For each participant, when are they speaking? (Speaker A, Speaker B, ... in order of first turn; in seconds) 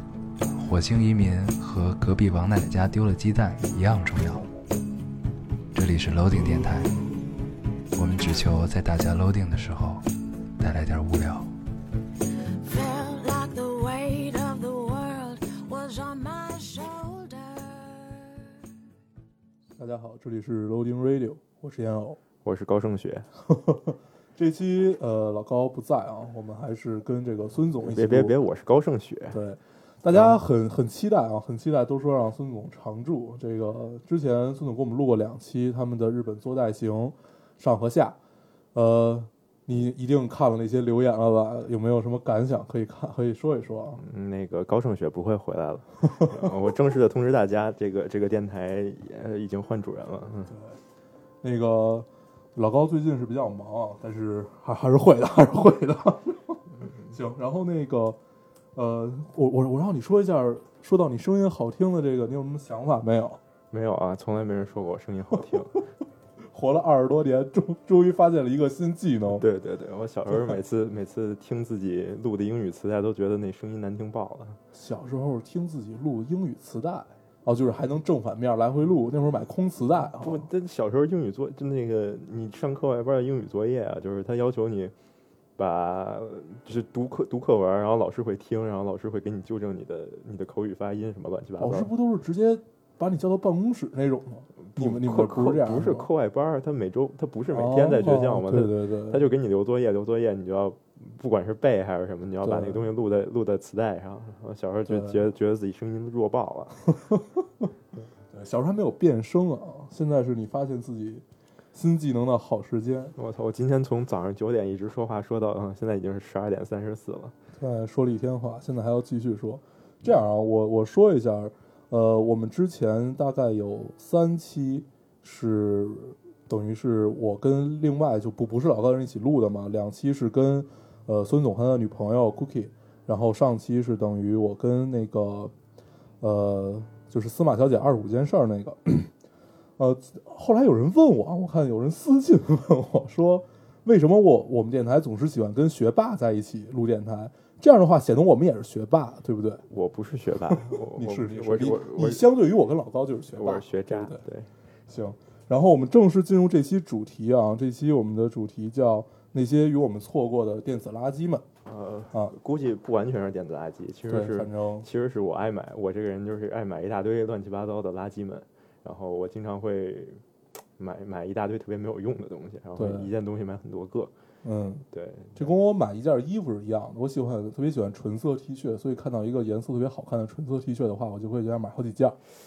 Speaker A: 0.5-4.5, 5.7-7.0, 8.0-10.0, 10.6-11.5
Speaker B: 12.6-18.4
Speaker C: 19.8-22.2, 23.5-28.3, 29.3-38.2, 38.7-44.0, 50.5-50.8, 51.4-58.2, 58.8-63.4, 66.5-69.4, 74.7-80.5, 91.6-96.1, 97.5-99.2, 102.4-102.8, 104.9-105.2, 107.0-107.7, 108.3-113.2, 117.6-135.5, 136.2-139.1, 139.8-149.6, 150.5-154.2, 154.9-161.4, 164.1-164.9, 172.8-173.1, 174.4-174.8, 175.4-182.2
Speaker D: 22.4-23.3, 27.8-29.4, 30.1-30.4, 44.0-50.5, 56.8-57.1, 63.7-65.8, 69.3-74.6, 80.2-84.9, 85.6-91.9, 94.7-106.9, 113.2-117.3, 149.7-152.3, 153.4-154.5, 161.7-170.2, 170.8-174.1, 174.9-175.5